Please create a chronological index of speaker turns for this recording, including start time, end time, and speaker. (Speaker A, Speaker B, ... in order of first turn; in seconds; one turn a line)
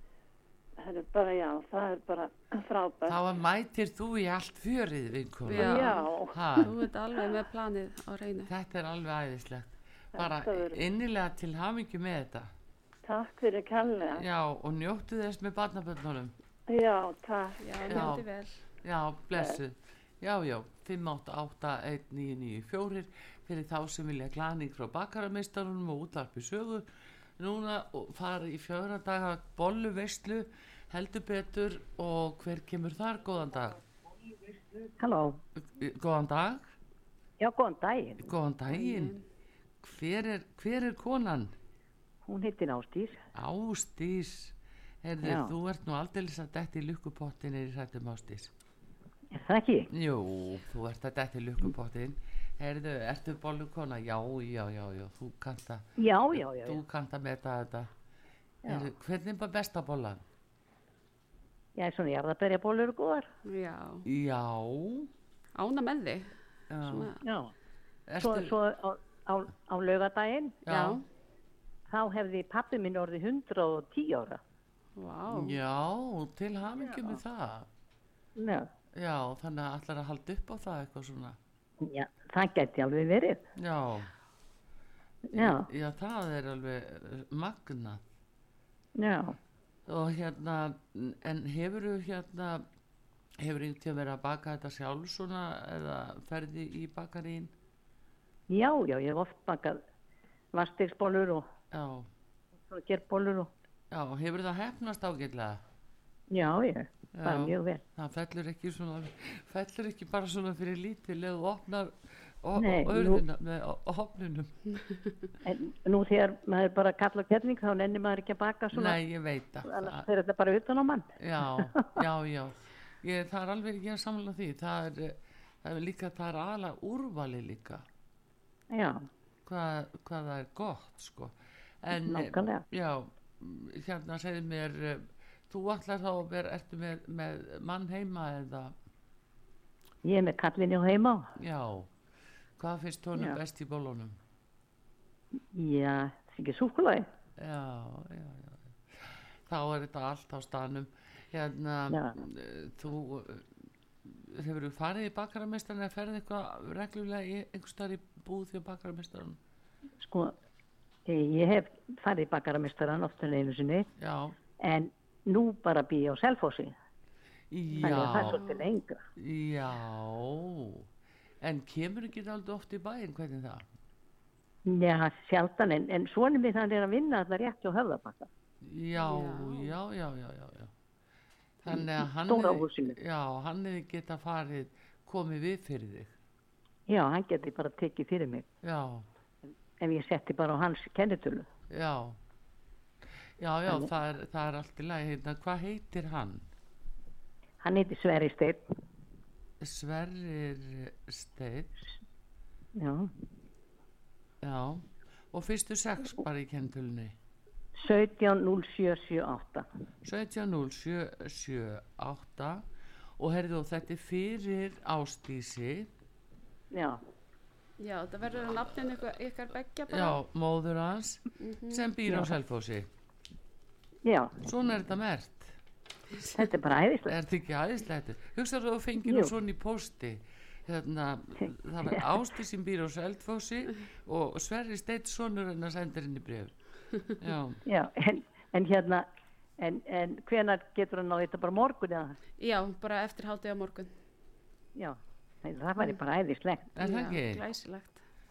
Speaker A: 0.8-3.2
Speaker B: 3.1-6.7
Speaker C: 5.5-8.5
Speaker A: 5.5-6.4
Speaker B: 8.5-12.5
Speaker A: 10.2-10.8
Speaker A: 13.0-14.2
Speaker B: 14.1-16.3
Speaker A: 16.7-18.1
Speaker C: 17.6-18.6
Speaker B: 17.9-18.2
Speaker B: 18.8-26.9
Speaker A: 19.4-19.6
Speaker B: 27.4-33.8
Speaker D: 35.0-35.4
Speaker B: 35.6-36.7
Speaker D: 37.4-38.3
Speaker B: 38.2-39.1
Speaker C: 38.7-39.2
Speaker B: 39.8-41.5
Speaker D: 42.2-43.2
Speaker B: 43.4-48.5
Speaker D: 45.2-45.5
Speaker D: 49.3-49.9
Speaker B: 49.9-57.9
Speaker D: 56.0-56.8
Speaker B: 58.7-60.2
Speaker D: 61.8-63.3
Speaker C: 63.5-64.1
Speaker B: 64.0-65.1
Speaker C: 65.6-67.2
Speaker B: 66.7-67.1
Speaker D: 67.2-67.5
Speaker B: 68.1-68.5
Speaker D: 68.2-70.6
Speaker B: 70.7-71.0
Speaker C: 70.7-71.0
Speaker D: 71.9-74.4
Speaker C: 75.0-75.6
Speaker B: 75.3-77.7
Speaker D: 76.9-77.2
Speaker D: 78.4-78.7
Speaker B: 79.0-81.4
Speaker D: 81.8-83.4
Speaker B: 83.6-84.1
Speaker D: 85.3-85.7
Speaker B: 85.3-88.0
Speaker D: 89.0-89.4
Speaker B: 89.9-92.6
Speaker B: 93.4-97.5
Speaker D: 98.5-99.8
Speaker D: 100.5-101.5
Speaker B: 101.7-102.1
Speaker D: 102.7-103.5
Speaker B: 103.9-105.6
Speaker D: 106.3-107.8
Speaker B: 107.2-114.5
Speaker D: 112.6-113.2
Speaker D: 115.4-119.0
Speaker B: 118.7-120.1
Speaker D: 119.6-121.9
Speaker B: 121.2-127.8
Speaker D: 128.7-129.1
Speaker B: 129.5-138.7
Speaker D: 131.9-132.6
Speaker D: 140.0-141.3
Speaker B: 141.4-141.9
Speaker B: 142.6-144.2
Speaker D: 145.5-147.1
Speaker B: 147.4-153.5
Speaker D: 151.9-152.2
Speaker B: 154.0-159.4
Speaker D: 160.0-160.3
Speaker D: 161.1-163.9
Speaker B: 164.0-164.4
Speaker D: 164.6-166.7
Speaker B: 167.5-168.4
Speaker C: 167.7-168.7
Speaker D: 167.8-169.0
Speaker B: 169.2-170.9
Speaker B: 171.4-173.7
Speaker D: 174.7-178.3
Speaker B: 178.6-180.7
Speaker C: 179.0-179.7
Speaker B: 181.6-186.1
Speaker D: 181.7-183.0
Speaker D: 186.9-188.5
Speaker B: 188.6-189.1
Speaker D: 189.8-191.5
Speaker B: 191.7-192.2
Speaker B: 193.4-196.5
Speaker D: 197.6-198.6
Speaker B: 199.6-201.8
Speaker D: 202.8-203.1
Speaker B: 204.4-207.2
Speaker D: 207.8-209.7
Speaker B: 210.0-212.6
Speaker B: 213.2-215.9
Speaker D: 216.7-217.0
Speaker C: 217.8-220.2
Speaker B: 219.9-222.9
Speaker C: 221.4-221.9
Speaker D: 222.1-222.3
Speaker D: 224.0-224.4
Speaker B: 224.4-225.5
Speaker C: 226.2-226.4
Speaker D: 226.3-227.2
Speaker B: 227.1-236.6
Speaker D: 229.0-229.3
Speaker D: 231.4-232.1
Speaker B: 237.2-237.6
Speaker D: 237.7-239.1
Speaker D: 239.6-242.2
Speaker C: 242.4-243.9
Speaker D: 244.8-246.8
Speaker B: 246.8-247.5
Speaker C: 246.8-248.0